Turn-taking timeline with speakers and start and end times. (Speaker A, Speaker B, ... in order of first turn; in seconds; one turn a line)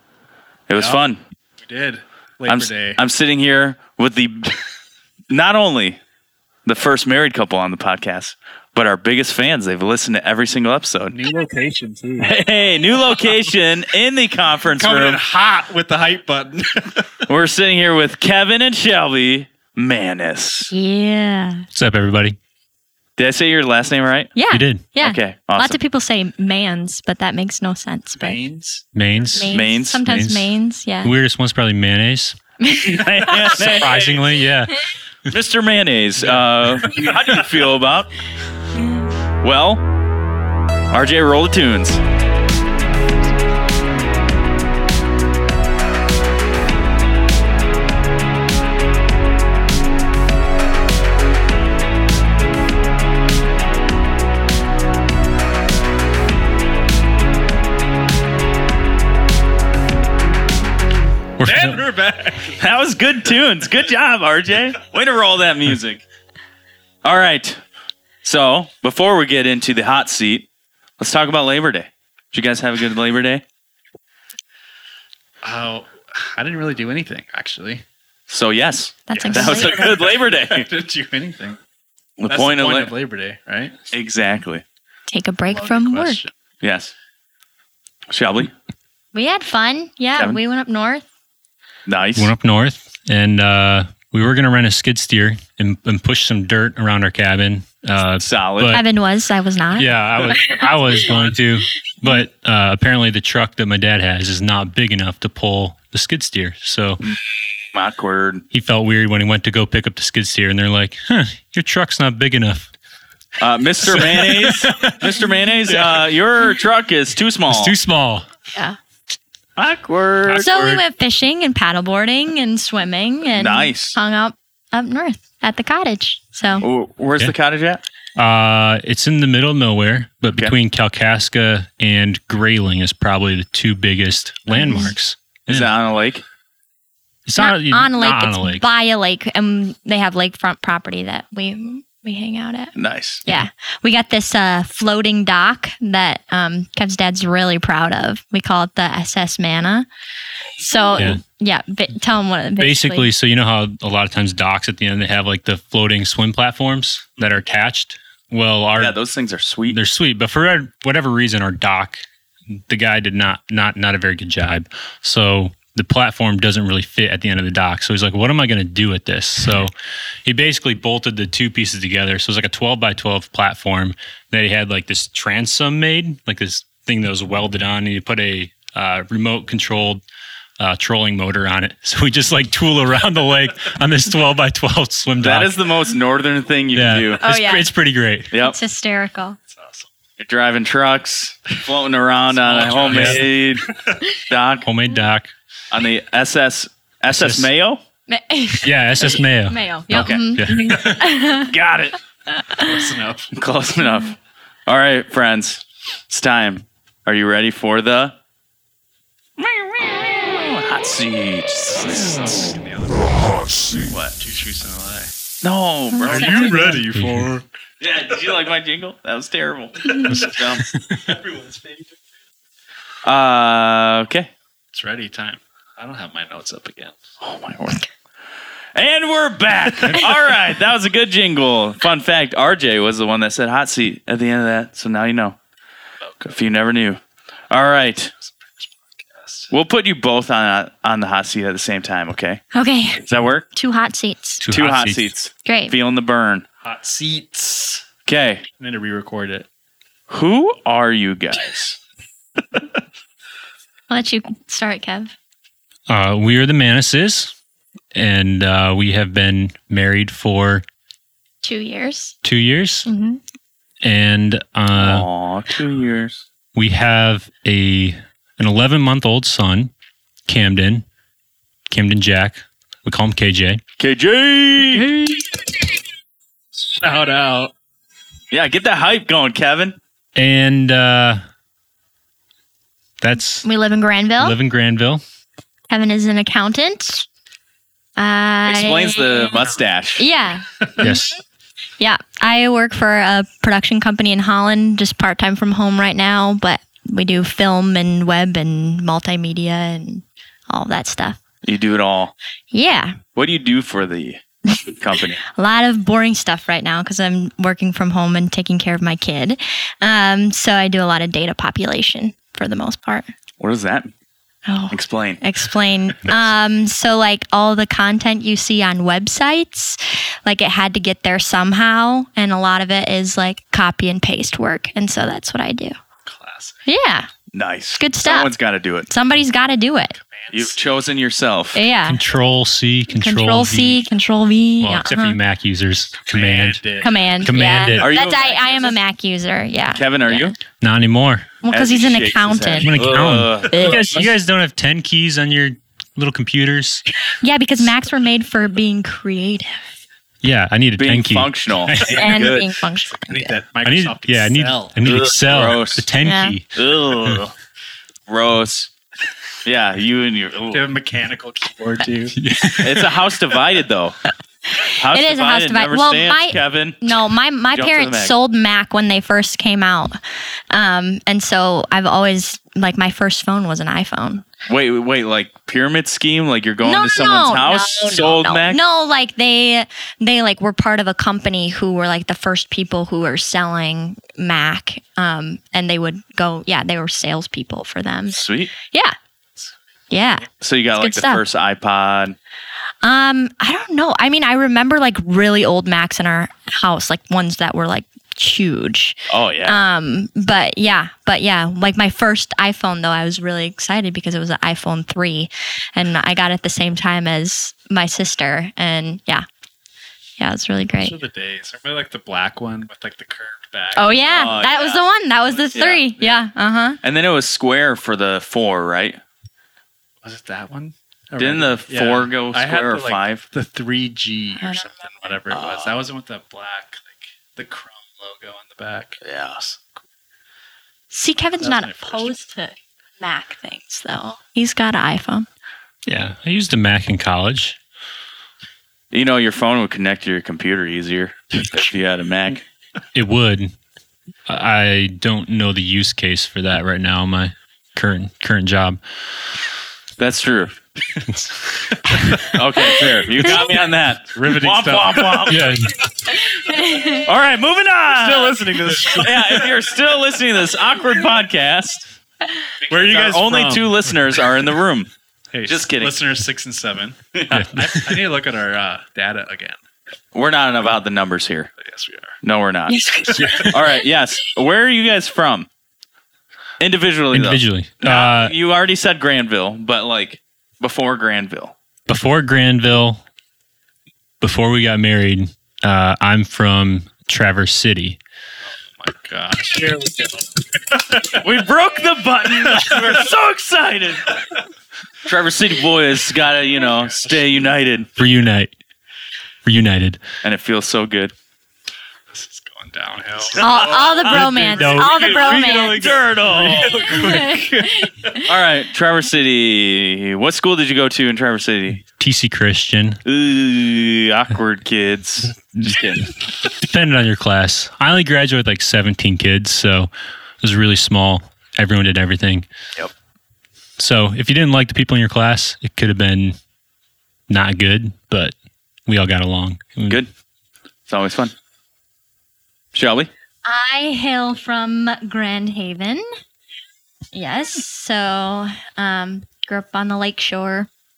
Speaker A: 0.7-1.2
Speaker B: 0.7-1.0
Speaker B: 1.6-3.0
Speaker A: 2.5-4.6
Speaker A: 5.3-6.0
Speaker A: 6.7-11.2
Speaker B: 11.1-12.4
Speaker A: 12.2-15.2
Speaker B: 14.7-17.2
Speaker A: 17.3-20.7
Speaker C: 20.7-21.7
Speaker D: 21.7-22.4
Speaker A: 23.2-24.3
Speaker C: 24.4-28.4
Speaker D: 24.5-24.8
Speaker A: 25.0-25.8
Speaker B: 28.2-29.5
Speaker D: 28.9-32.4
Speaker C: 29.4-31.1
Speaker A: 29.5-30.0
Speaker C: 32.6-33.8
Speaker A: 32.8-34.2
Speaker D: 33.5-34.8
Speaker A: 35.3-38.1
Speaker B: 36.2-37.4
Speaker A: 39.4-39.8
Speaker A: 40.9-42.0
Speaker D: 61.4-61.9
Speaker B: 61.5-62.6
Speaker A: 62.6-66.0
Speaker A: 67.0-67.6
Speaker A: 68.2-70.5
Speaker A: 71.0-73.4
Speaker B: 75.4-77.8
Speaker A: 78.3-80.7
Speaker C: 79.1-79.8
Speaker B: 79.1-81.6
Speaker A: 82.2-82.9
Speaker B: 82.3-83.8
Speaker A: 83.9-84.6
Speaker C: 85.1-86.2
Speaker B: 85.5-86.3
Speaker A: 86.6-86.9
Speaker A: 88.1-88.5
Speaker C: 89.1-91.0
Speaker A: 91.9-92.3
Speaker D: 92.2-98.8
Speaker A: 98.2-98.8
Speaker C: 98.7-100.7
Speaker D: 99.8-107.0
Speaker A: 107.0-108.4
Speaker D: 108.5-112.7
Speaker A: 113.4-117.8
Speaker D: 113.9-115.1
Speaker D: 115.7-116.1
Speaker D: 117.5-118.3
Speaker A: 119.6-120.8
Speaker C: 120.3-126.7
Speaker A: 123.3-124.0
Speaker A: 126.6-127.8
Speaker D: 128.2-135.7
Speaker C: 134.5-134.9
Speaker A: 135.5-136.2
Speaker D: 137.3-138.6
Speaker C: 137.4-142.8
Speaker A: 142.8-143.2
Speaker C: 143.3-149.9
Speaker C: 150.6-153.1
Speaker D: 150.9-151.2
Speaker D: 152.6-158.9
Speaker A: 158.8-159.8
Speaker D: 159.7-169.7
Speaker D: 170.2-180.0
Speaker D: 180.6-185.6
Speaker A: 185.2-187.3
Speaker D: 186.8-188.3
Speaker C: 187.2-187.7
Speaker A: 188.3-188.6
Speaker C: 188.4-189.4
Speaker B: 189.5-189.9
Speaker A: 190.2-194.7
Speaker B: 192.3-193.9
Speaker D: 192.7-193.2
Speaker D: 194.7-195.3
Speaker A: 195.7-197.8
Speaker D: 197.1-197.5
Speaker C: 198.1-201.5
Speaker D: 198.6-201.0
Speaker A: 199.9-200.2
Speaker A: 201.2-202.0
Speaker C: 202.3-202.8
Speaker B: 202.6-203.3
Speaker A: 203.3-204.2
Speaker A: 204.7-208.2
Speaker A: 209.4-212.5
Speaker B: 211.8-215.1
Speaker A: 213.8-214.2
Speaker A: 215.4-216.6
Speaker C: 216.0-216.8
Speaker B: 216.0-217.5
Speaker D: 216.4-217.3
Speaker A: 217.8-220.7
Speaker D: 220.2-221.1
Speaker B: 221.1-221.9
Speaker A: 223.1-224.3
Speaker B: 224.7-227.0
Speaker A: 227.2-227.9
Speaker A: 228.8-235.4
Speaker B: 236.0-236.3
Speaker A: 236.2-238.1
Speaker B: 238.3-239.5
Speaker A: 239.5-242.4
Speaker C: 242.5-244.4
Speaker A: 243.0-243.5
Speaker D: 244.4-245.1
Speaker A: 244.5-246.5
Speaker C: 245.4-245.8
Speaker B: 246.6-247.8
Speaker A: 248.1-248.4
Speaker B: 248.6-249.5
Speaker A: 250.1-251.8
Speaker C: 253.9-255.1
Speaker D: 255.9-257.3
Speaker D: 257.9-260.6
Speaker C: 261.4-262.2
Speaker D: 262.2-262.9
Speaker C: 262.9-263.2
Speaker D: 263.8-265.1
Speaker A: 264.8-266.2
Speaker D: 266.5-269.7
Speaker D: 270.3-270.8
Speaker D: 271.7-273.6
Speaker A: 273.8-274.9
Speaker D: 274.7-275.2
Speaker B: 276.7-277.5
Speaker A: 278.3-279.8
Speaker D: 280.1-281.2
Speaker D: 283.0-283.5
Speaker C: 283.4-284.4
Speaker D: 284.2-285.0
Speaker C: 285.7-287.1
Speaker C: 288.0-289.4
Speaker A: 288.4-290.1
Speaker C: 290.0-291.2
Speaker D: 290.8-291.1
Speaker C: 291.8-301.2
Speaker A: 301.4-302.1
Speaker C: 302.5-303.0
Speaker A: 303.2-305.2
Speaker C: 305.3-313.1
Speaker A: 313.4-313.9
Speaker C: 314.5-325.8
Speaker A: 314.7-315.2
Speaker B: 326.0-326.6
Speaker C: 326.7-327.1
Speaker A: 327.3-328.9
Speaker C: 327.8-328.3
Speaker C: 328.9-329.9
Speaker B: 329.9-330.6
Speaker A: 330.3-331.7
Speaker C: 331.5-332.0
Speaker D: 331.9-333.8
Speaker C: 332.9-335.2
Speaker D: 334.6-336.6
Speaker B: 336.1-337.0
Speaker C: 336.8-340.3
Speaker D: 337.2-337.9
Speaker A: 337.8-338.8
Speaker A: 339.7-340.4
Speaker D: 340.6-341.3
Speaker C: 341.4-342.8
Speaker A: 341.5-344.1
Speaker D: 342.6-346.9
Speaker C: 343.5-343.9
Speaker C: 347.1-349.6
Speaker D: 350.2-352.2
Speaker A: 350.8-352.6
Speaker C: 351.8-353.4
Speaker B: 353.0-355.0
Speaker D: 353.6-357.2
Speaker A: 354.9-355.9
Speaker C: 356.0-356.4
Speaker A: 356.6-357.3
Speaker A: 358.1-358.7
Speaker A: 359.4-360.6
Speaker B: 360.5-362.1
Speaker D: 362.1-363.0
Speaker A: 362.6-364.0
Speaker C: 364.5-370.0
Speaker A: 364.7-367.0
Speaker A: 367.5-368.1
Speaker C: 370.5-374.3
Speaker A: 374.5-378.6
Speaker C: 376.6-388.9
Speaker A: 388.1-388.5
Speaker C: 389.9-391.2
Speaker A: 390.4-392.2
Speaker C: 392.8-409.2
Speaker A: 399.1-399.6
Speaker C: 410.2-411.0
Speaker B: 410.8-414.5
Speaker C: 413.8-416.8
Speaker A: 414.1-414.8
Speaker B: 415.2-416.3
Speaker A: 415.6-415.8
Speaker A: 416.8-419.0
Speaker B: 420.0-429.0
Speaker A: 421.2-423.2
Speaker C: 424.4-425.2
Speaker A: 425.3-425.8
Speaker A: 429.0-429.5
Speaker C: 430.9-435.3
Speaker B: 431.4-432.2
Speaker D: 435.9-437.6
Speaker A: 438.9-442.4
Speaker D: 442.9-443.5
Speaker D: 444.3-448.8
Speaker A: 450.0-450.6
Speaker D: 451.2-451.8
Speaker C: 452.1-453.4
Speaker A: 452.3-455.6
Speaker B: 453.4-455.5
Speaker D: 455.3-455.8
Speaker C: 456.1-457.1
Speaker A: 456.9-461.9
Speaker B: 457.9-459.5
Speaker B: 462.6-463.8
Speaker A: 462.7-464.9
Speaker B: 465.3-469.6
Speaker A: 465.5-466.0
Speaker A: 467.1-467.4
Speaker D: 467.3-468.0
Speaker A: 470.1-471.5
Speaker B: 471.6-472.2
Speaker A: 472.2-472.7
Speaker C: 472.7-473.7
Speaker D: 473.1-473.6
Speaker A: 473.4-475.5
Speaker A: 476.6-481.6
Speaker D: 477.1-478.3
Speaker D: 481.9-483.0
Speaker D: 484.2-488.0
Speaker B: 488.8-491.2
Speaker A: 491.1-494.2
Speaker B: 492.5-493.0
Speaker A: 495.0-497.9
Speaker B: 496.6-497.3
Speaker D: 498.0-498.5
Speaker D: 499.4-500.0
Speaker A: 500.2-501.1
Speaker B: 502.1-508.1
Speaker A: 503.3-507.2
Speaker C: 503.4-506.0
Speaker D: 504.1-505.0
Speaker C: 506.8-508.3
Speaker A: 508.2-511.8
Speaker D: 512.0-513.0
Speaker A: 513.0-516.1
Speaker D: 515.5-515.8
Speaker D: 516.4-519.9
Speaker D: 520.4-522.5
Speaker D: 523.8-526.4
Speaker D: 527.3-528.4
Speaker D: 528.9-530.0
Speaker A: 530.9-531.3
Speaker A: 532.7-533.1
Speaker C: 533.5-536.1
Speaker C: 537.1-540.7